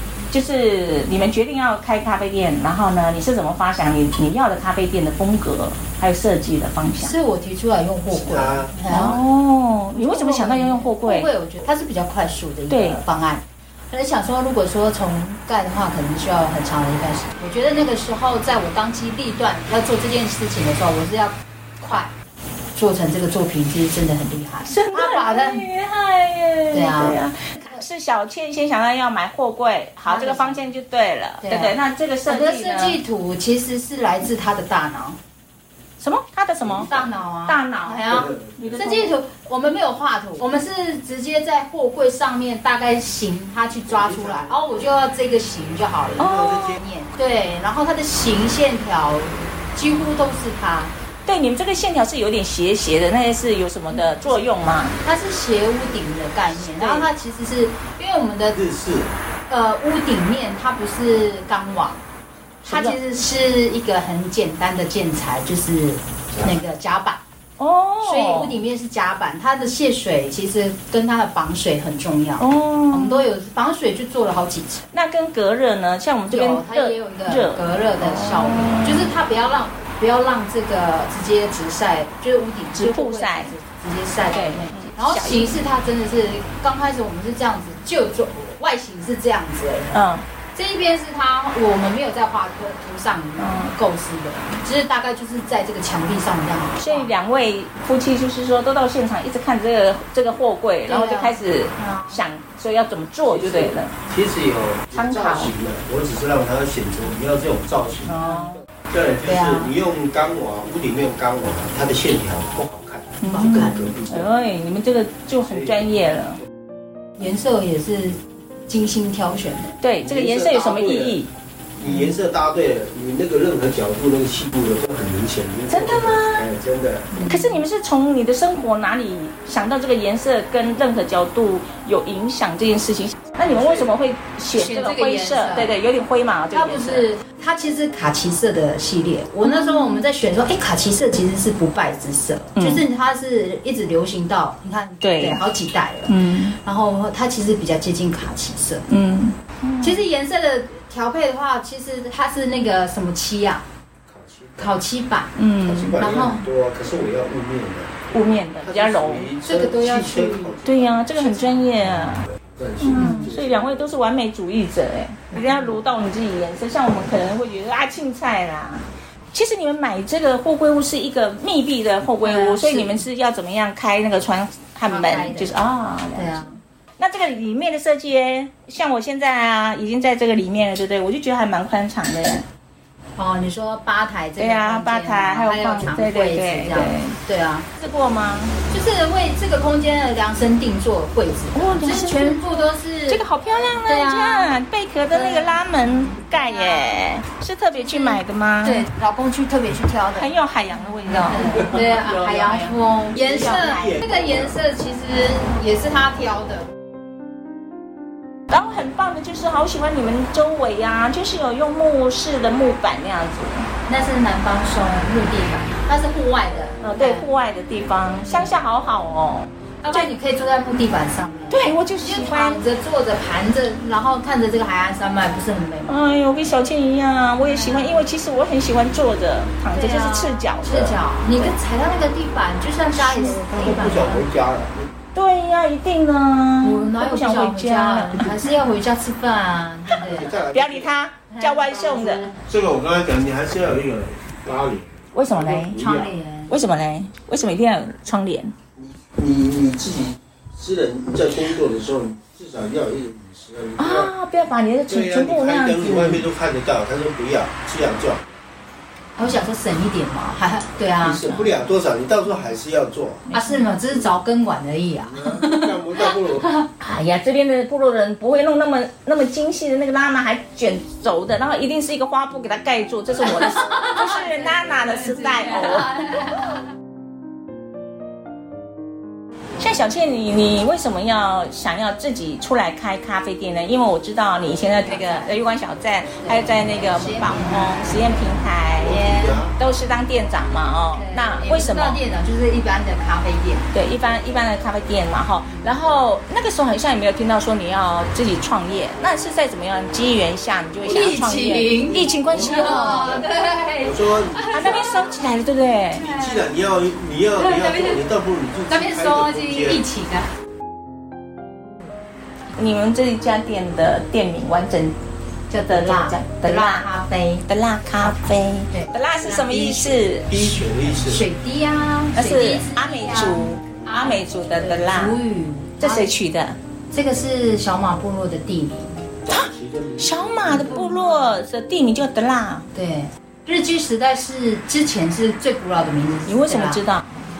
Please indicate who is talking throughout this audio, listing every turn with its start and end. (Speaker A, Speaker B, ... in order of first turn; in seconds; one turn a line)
Speaker A: 0.3-7.2
Speaker B: 7.0-9.2
Speaker C: 8.2-8.7
Speaker A: 8.9-11.3
Speaker B: 9.9-22.1
Speaker A: 12.7-13.0
Speaker B: 22.8-25.7
Speaker A: 24.6-33.0
Speaker B: 26.7-27.2
Speaker B: 30.1-30.6
Speaker B: 31.4-35.2
Speaker A: 36.0-39.1
Speaker B: 36.8-50.9
Speaker C: 38.1-38.7
Speaker C: 43.9-44.5
Speaker A: 46.2-46.8
Speaker C: 46.2-46.7
Speaker A: 51.2-55.0
Speaker B: 55.0-58.7
Speaker A: 56.6-57.1
Speaker C: 58.5-59.1
Speaker B: 59.5-62.0
Speaker A: 62.6-63.0
Speaker B: 62.6-67.2
Speaker A: 67.6-68.6
Speaker B: 68.0-74.8
Speaker A: 72.4-73.3
Speaker A: 74.9-79.1
Speaker B: 76.3-90.0
Speaker A: 82.8-83.5
Speaker A: 84.3-85.6
Speaker A: 89.9-90.2
Speaker B: 90.5-97.1
Speaker A: 93.4-93.7
Speaker A: 96.8-104.0
Speaker B: 100.9-102.2
Speaker C: 103.3-108.2
Speaker A: 104.9-105.5
Speaker A: 108.0-108.6
Speaker B: 108.1-108.6
Speaker C: 108.9-113.1
Speaker B: 109.2-109.7
Speaker A: 113.2-116.4
Speaker B: 113.3-113.9
Speaker C: 113.7-114.3
Speaker B: 117.2-119.8
Speaker A: 119.8-121.3
Speaker C: 120.0-121.2
Speaker C: 121.8-127.2
Speaker B: 121.8-122.2
Speaker A: 125.7-126.5
Speaker B: 127.1-127.6
Speaker A: 127.2-137.1
Speaker C: 133.5-133.9
Speaker B: 134.5-135.8
Speaker B: 136.5-148.9
Speaker A: 139.4-140.1
Speaker A: 142.6-142.8
Speaker A: 145.0-145.4
Speaker A: 146.1-146.6
Speaker A: 148.9-150.0
Speaker B: 149.8-153.6
Speaker C: 154.1-154.7
Speaker B: 154.6-155.3
Speaker A: 155.4-156.1
Speaker C: 155.6-158.0
Speaker B: 156.0-156.5
Speaker A: 158.1-159.3
Speaker C: 158.6-160.9
Speaker B: 159.5-161.7
Speaker A: 160.6-182.4
Speaker C: 162.5-163.7
Speaker B: 162.9-163.3
Speaker B: 165.3-165.8
Speaker B: 172.2-173.0
Speaker B: 174.8-175.6
Speaker B: 176.2-176.6
Speaker B: 183.2-187.7
Speaker A: 184.4-187.2
Speaker A: 187.8-188.6
Speaker B: 188.7-194.5
Speaker A: 191.5-192.4
Speaker A: 193.1-198.9
Speaker B: 195.1-197.1
Speaker B: 197.7-200.4
Speaker A: 200.2-204.1
Speaker B: 201.1-206.7
Speaker C: 203.3-204.6
Speaker A: 208.5-213.7
Speaker B: 213.9-217.3
Speaker A: 216.8-220.1
Speaker B: 219.8-226.0
Speaker A: 221.5-222.6
Speaker A: 225.9-231.5
Speaker B: 227.4-228.1
Speaker B: 229.7-234.3
Speaker A: 233.0-233.4
Speaker C: 233.4-234.9
Speaker A: 235.1-238.4
Speaker B: 236.6-240.4
Speaker C: 240.2-240.9
Speaker A: 240.4-242.3
Speaker B: 241.3-242.4
Speaker C: 242.4-246.0
Speaker A: 245.1-248.5
Speaker B: 245.4-246.6
Speaker C: 248.8-254.1
Speaker A: 253.8-256.3
Speaker C: 254.9-258.2
Speaker B: 259.2-261.4
Speaker C: 261.0-263.2
Speaker A: 261.1-261.6
Speaker A: 263.3-263.7
Speaker B: 263.3-266.7
Speaker C: 265.1-266.5
Speaker A: 266.8-276.4
Speaker B: 273.2-276.5
Speaker A: 279.6-292.0
Speaker B: 284.8-285.4
Speaker B: 286.2-289.5
Speaker C: 288.9-289.5
Speaker B: 290.9-293.7
Speaker A: 293.7-303.3
Speaker B: 300.8-305.1
Speaker C: 301.8-302.6
Speaker C: 303.8-304.9
Speaker A: 304.5-306.1
Speaker B: 305.9-306.6
Speaker C: 306.1-309.8
Speaker B: 307.4-308.0
Speaker B: 308.7-310.3
Speaker A: 312.5-315.0
Speaker B: 315.5-317.5
Speaker A: 315.7-316.9
Speaker A: 317.5-320.6
Speaker B: 318.0-320.2
Speaker C: 320.3-321.2
Speaker B: 320.7-326.1
Speaker A: 322.1-325.2
Speaker A: 325.8-326.6
Speaker B: 326.9-329.1
Speaker A: 329.3-332.7
Speaker C: 329.3-330.6
Speaker B: 330.5-331.4
Speaker B: 332.7-336.8
Speaker A: 336.3-337.1